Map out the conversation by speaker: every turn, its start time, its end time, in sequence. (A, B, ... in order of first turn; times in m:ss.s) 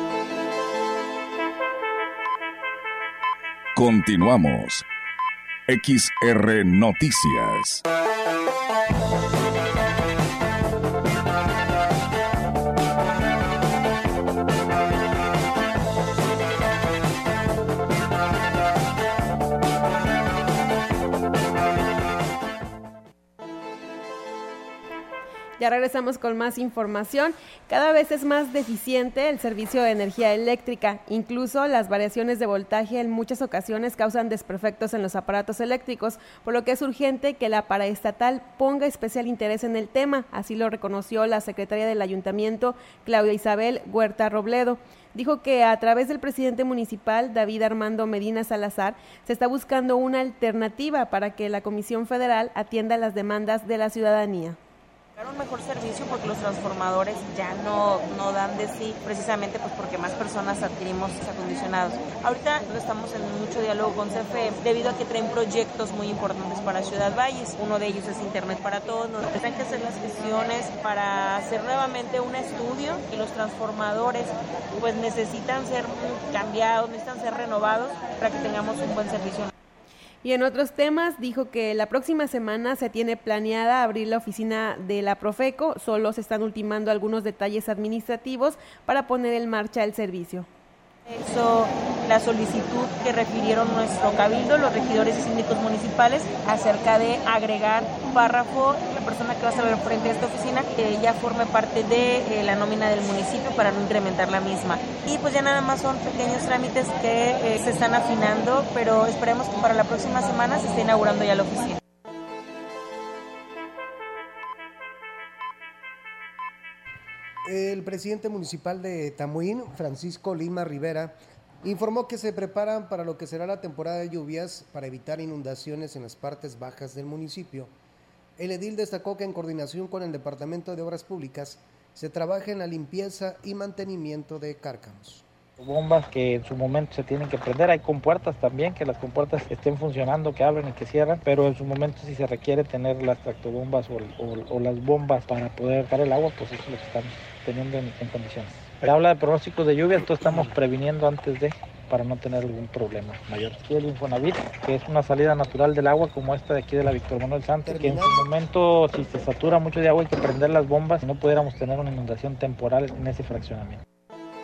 0:03.7-0:04.8 A
0:05.7-0:07.8 A
0:25.6-0:54.6 B
0:55.2-1:19.5 C
1:20.2-1:30.5 B
1:31.1-1:51.8 C
1:57.4-2:07.7 D
2:08.4-2:15.2 D
2:15.6-2:43.8 E
2:37.6-2:38.3 D